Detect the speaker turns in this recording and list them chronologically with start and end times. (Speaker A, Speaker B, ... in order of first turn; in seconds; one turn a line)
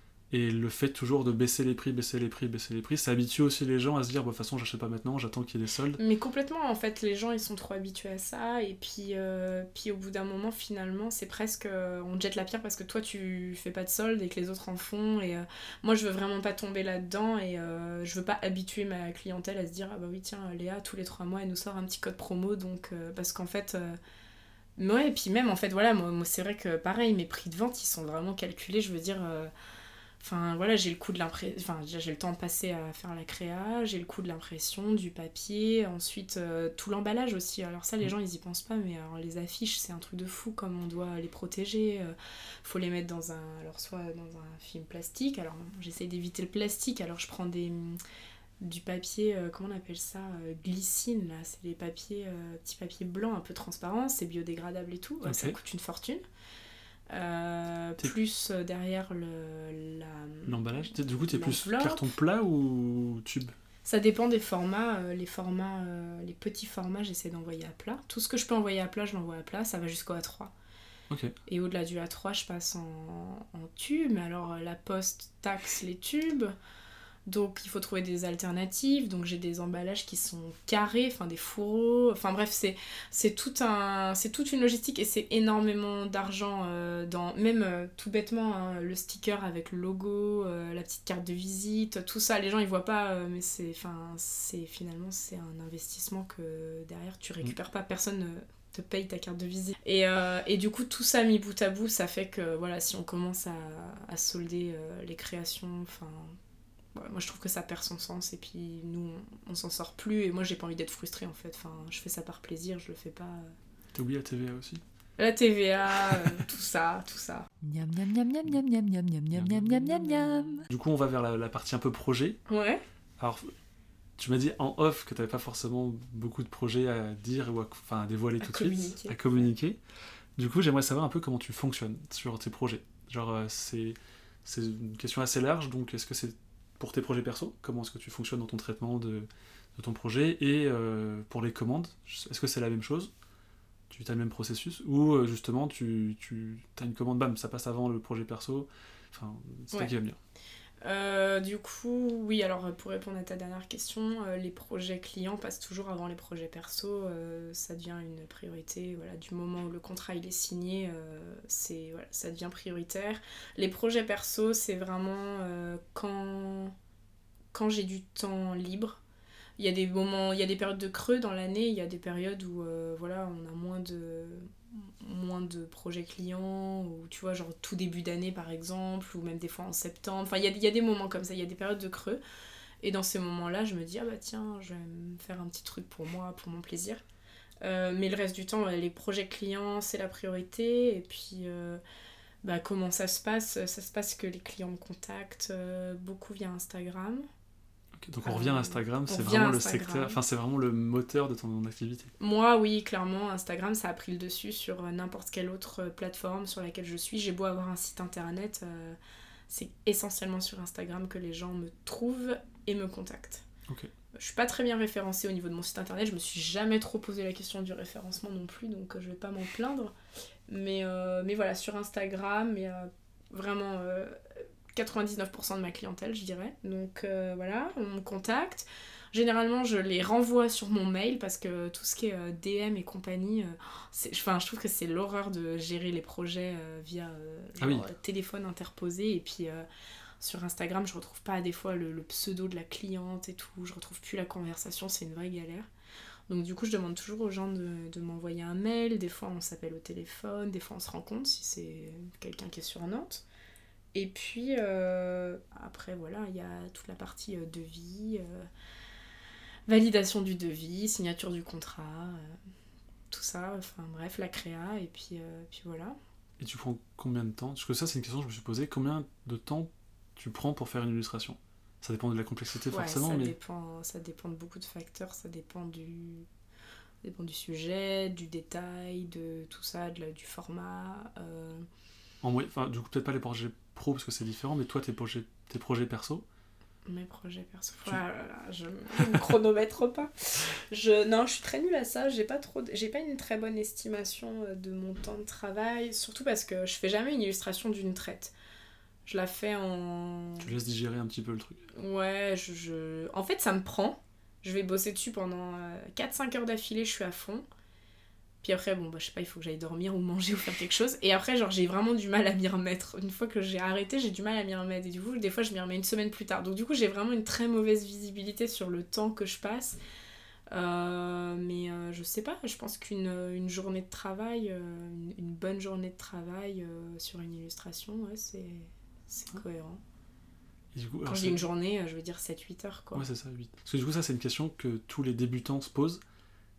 Speaker A: 0.3-6.0
Speaker B: 6.0-24.0
Speaker B: 24.8-29.5
Speaker B: 30.2-48.0
Speaker B: 48.6-56.2
Speaker A: 55.2-55.6
Speaker B: 57.1-62.2
Speaker A: 60.5-63.5
Speaker B: 63.9-70.5
Speaker B: 71.5-76.5
Speaker B: 77.3-106.4
Speaker B: 106.9-113.5
Speaker A: 113.9-114.8
Speaker B: 115.2-117.5
Speaker C: 117.6-120.7
Speaker A: 120.7-122.4
Speaker B: 122.5-122.8
Speaker A: 123.2-123.5
Speaker A: 124.2-129.8
Speaker B: 128.4-129.5
Speaker A: 130.4-143.1
Speaker A: 143.9-150.2
Speaker B: 150.8-166.8
Speaker B: 167.5-169.0
Speaker B: 169.6-182.2
Speaker B: 182.8-187.0
Speaker B: 187.6-191.8
Speaker B: 192.4-197.3
Speaker A: 198.0-202.1
Speaker B: 198.2-200.2
Speaker B: 202.2-209.0
Speaker B: 209.5-213.4
Speaker B: 214.1-219.9
Speaker B: 220.5-224.2
Speaker B: 224.7-239.7
Speaker A: 237.6-237.9
Speaker B: 240.2-245.7
Speaker B: 246.3-253.2
Speaker B: 253.9-258.5
Speaker B: 259.7-262.4
Speaker B: 263.1-266.0
Speaker A: 266.4-273.4
Speaker B: 272.7-276.3
Speaker B: 277.0-281.7
Speaker A: 282.2-286.2
Speaker B: 286.9-298.3
Speaker B: 299.1-300.6
Speaker A: 300.4-301.7
Speaker B: 301.7-307.5
Speaker B: 308.4-319.8
Speaker B: 320.5-329.8
Speaker A: 330.7-331.4
Speaker B: 331.1-333.1
Speaker A: 332.9-336.0